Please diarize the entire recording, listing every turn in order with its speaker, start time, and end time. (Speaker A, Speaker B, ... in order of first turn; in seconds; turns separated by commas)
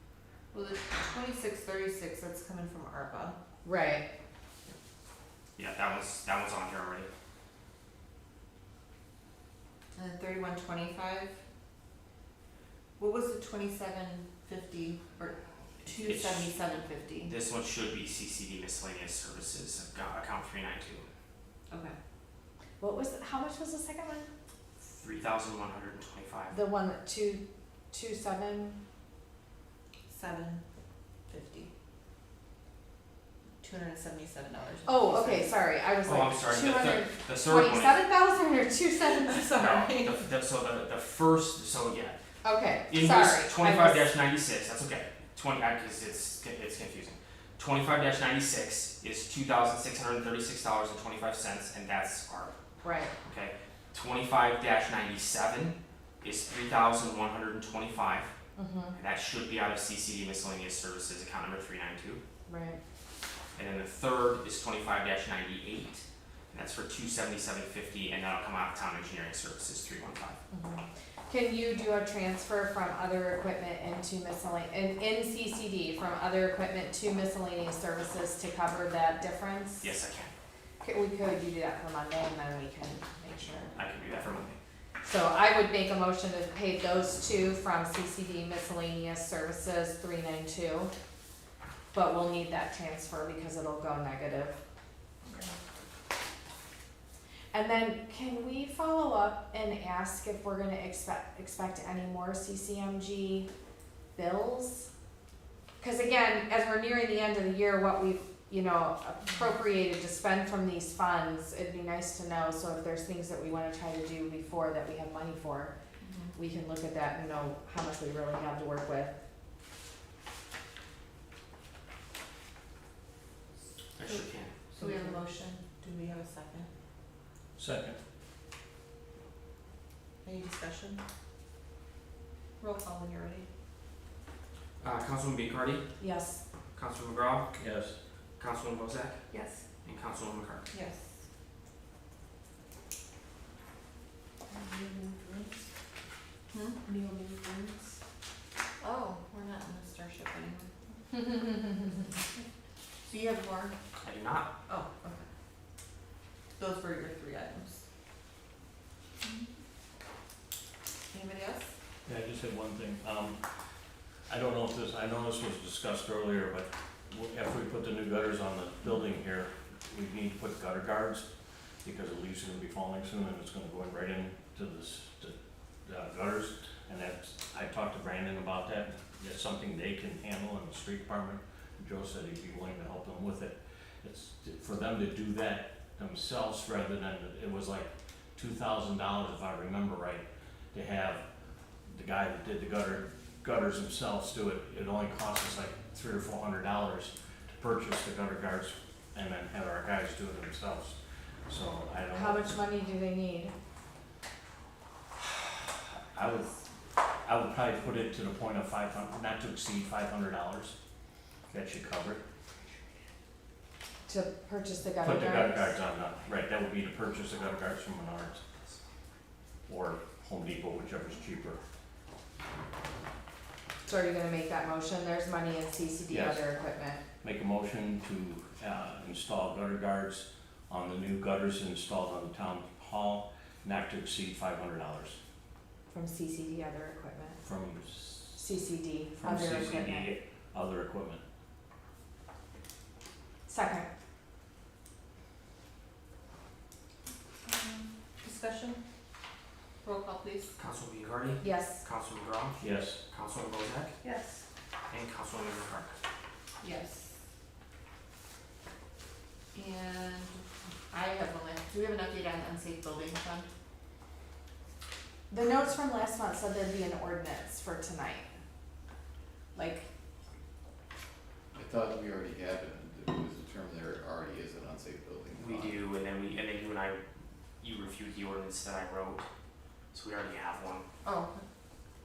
Speaker A: 0.5-3.4, Speaker B: 3.6-4.0, Speaker C: 5.6-7.1, Speaker A: 9.9-11.4, Speaker A: 13.0-17.3, Speaker C: 15.8-16.5, Speaker C: 17.2-21.0, Speaker A: 21.7-22.0, Speaker B: 22.8-24.3, Speaker C: 24.9-26.5, Speaker B: 26.5-28.8, Speaker A: 30.1-30.6, Speaker A: 31.3-31.7, Speaker A: 33.6-35.6, Speaker B: 34.9-39.4, Speaker C: 36.0-38.0, Speaker A: 38.9-40.2, Speaker C: 39.5-42.2, Speaker B: 42.4-44.1, Speaker C: 42.9-52.5, Speaker B: 52.8-53.1, Speaker C: 53.2-58.3, Speaker B: 58.5-59.0, Speaker C: 58.9-62.2, Speaker B: 62.5-62.8, Speaker C: 63.5-70.4, Speaker B: 70.5-79.9, Speaker C: 79.8-80.3, Speaker B: 80.8-83.7, Speaker C: 83.7-84.6, Speaker B: 85.0-90.9, Speaker B: 91.9-94.6, Speaker B: 97.5-103.5, Speaker B: 104.1-104.9, Speaker B: 105.8-115.7, Speaker A: 116.0-116.4, Speaker B: 116.3-119.1, Speaker C: 124.0-124.7, Speaker A: 124.7-126.7, Speaker D: 127.6-128.0, Speaker A: 130.2-131.0, Speaker A: 132.6-133.5, Speaker C: 134.8-135.8, Speaker B: 136.0-136.4, Speaker C: 136.7-137.5, Speaker D: 137.6-138.0, Speaker C: 138.4-139.2, Speaker C: 139.8-140.7, Speaker A: 140.7-141.1, Speaker A: 146.5-146.9, Speaker A: 148.8-150.7, Speaker A: 153.1-153.7, Speaker C: 154.0-154.5, Speaker A: 154.7-155.2, Speaker A: 156.6-157.8, Speaker A: 159.2-159.5, Speaker A: 161.1-161.7, Speaker D: 162.1-163.4, Speaker D: 164.3-171.3, Speaker D: 171.8-175.3, Speaker D: 175.8-191.2, Speaker D: 191.9-202.5, Speaker B: 202.1-203.5, Speaker D: 206.1-206.5, Speaker D: 207.2-210.7, Speaker D: 211.5-212.2, Speaker B: 214.1-215.7, Speaker D: 215.0-218.4, Speaker D: 219.7-221.6, Speaker B: 223.8-227.0, Speaker D: 226.1-226.4, Speaker D: 227.2-235.2, Speaker B: 235.9-237.4, Speaker D: 237.4-238.4, Speaker B: 238.3-240.1, Speaker D: 239.2-241.2, Speaker B: 243.5-243.9, Speaker A: 247.4-248.8, Speaker A: 249.8-250.5, Speaker C: 250.6-253.9, Speaker B: 251.4-251.8, Speaker D: 252.6-253.0, Speaker A: 254.0-254.4, Speaker C: 254.9-255.9, Speaker A: 256.6-257.1, Speaker A: 259.5-263.5, Speaker B: 265.3-268.3, Speaker A: 269.6-269.8, Speaker E: 271.5-275.8, Speaker C: 275.4-277.0, Speaker C: 277.6-279.3, Speaker C: 279.9-280.8, Speaker A: 281.0-281.4